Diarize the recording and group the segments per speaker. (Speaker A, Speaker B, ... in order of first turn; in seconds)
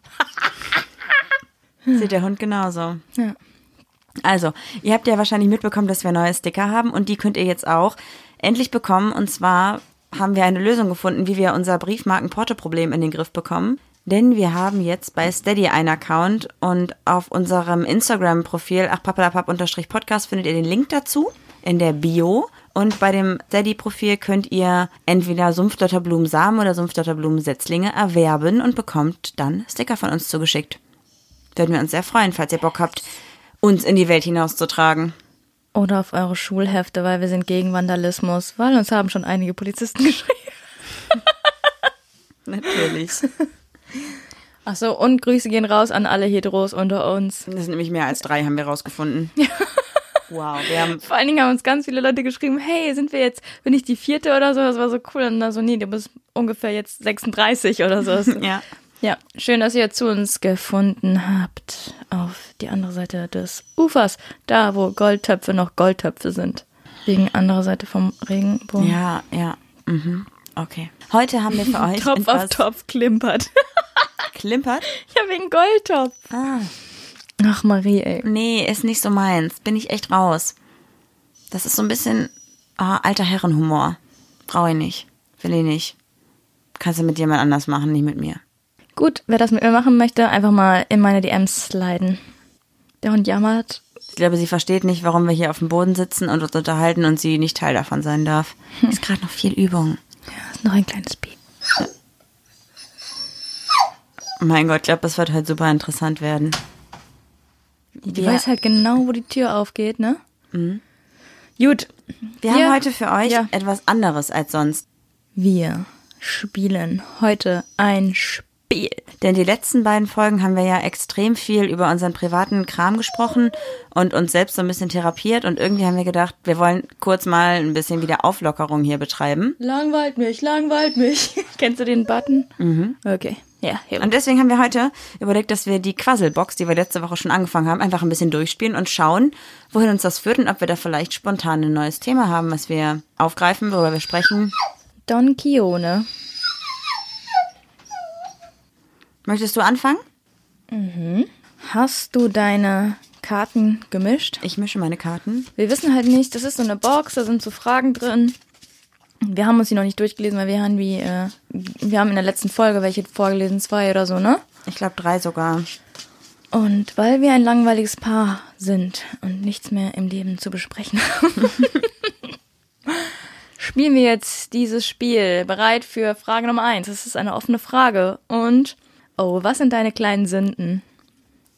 Speaker A: 1.9-3.0, 4.2-30.8, 31.5-33.1, 33.6-35.1, 42.5-43.2, 47.5-49.3, 50.3-51.0, 58.2-58.6, 68.8-72.6, 74.3-74.8, 76.3-76.7, 78.2-80.5, 81.5-86.0, 86.8-88.4, 94.1-100.0, 104.4-106.6, 108.0-108.4, 110.5-110.8, 112.4-114.8, 119.2-129.6, 132.6-133.0, 134.0-144.5, 149.2-150.0, 154.4-155.5, 164.7-165.7
Speaker B: 35.7-40.5, 44.6-47.5, 49.4-50.0, 50.7-58.4, 59.0-69.0, 71.5-74.2, 74.9-76.3, 77.4-78.2, 89.0-92.2, 93.0-93.8, 100.3-101.3, 108.1-110.2, 111.6-111.9, 112.4-113.5, 115.3-119.0, 129.6-132.5, 133.0-134.1, 145.1-146.1, 150.7-154.4, 155.6-158.4, 159.2-164.4, 166.5-172.1, 172.9-180.8